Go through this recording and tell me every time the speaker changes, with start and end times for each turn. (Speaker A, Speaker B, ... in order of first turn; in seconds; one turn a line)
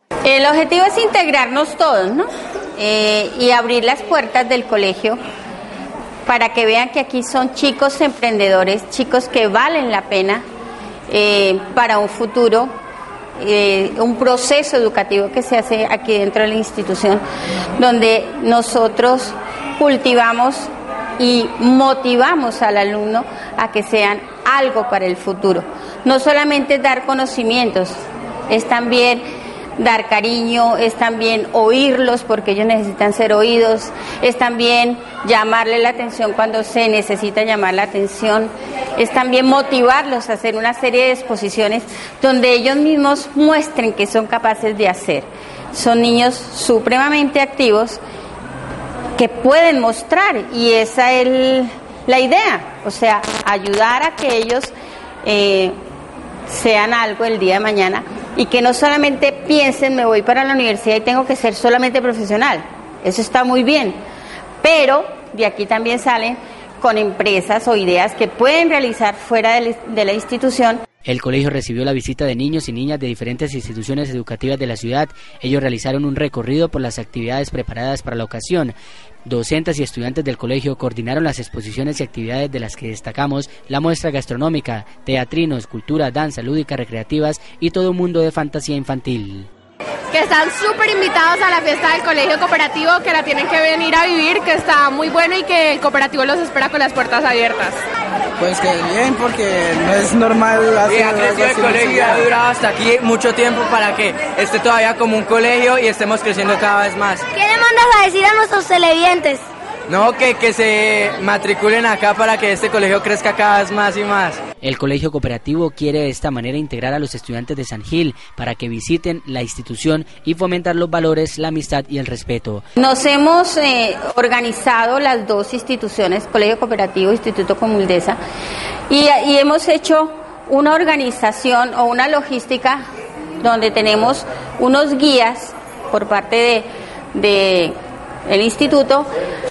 Speaker A: 0.2-5.2
Speaker A: 6.3-10.4
Speaker A: 11.1-12.7
Speaker A: 13.4-17.2
Speaker A: 17.8-28.0
Speaker A: 28.5-29.2
Speaker A: 29.8-48.0
Speaker A: 49.2-55.8
Speaker A: 56.5-64.0
Speaker A: 64.6-70.8
Speaker B: 71.0-78.7
Speaker B: 79.2-89.5
Speaker C: 90.1-97.8
Speaker D: 98.4-102.3
Speaker E: 100.8-107.2
Speaker F: 107.3-109.4
Speaker E: 109.9-114.4
Speaker B: 114.6-122.6
Speaker A: 122.8-128.2
Speaker A: 128.9-132.8
Speaker A: 133.4-137.7
Speaker A: 138.3-139.1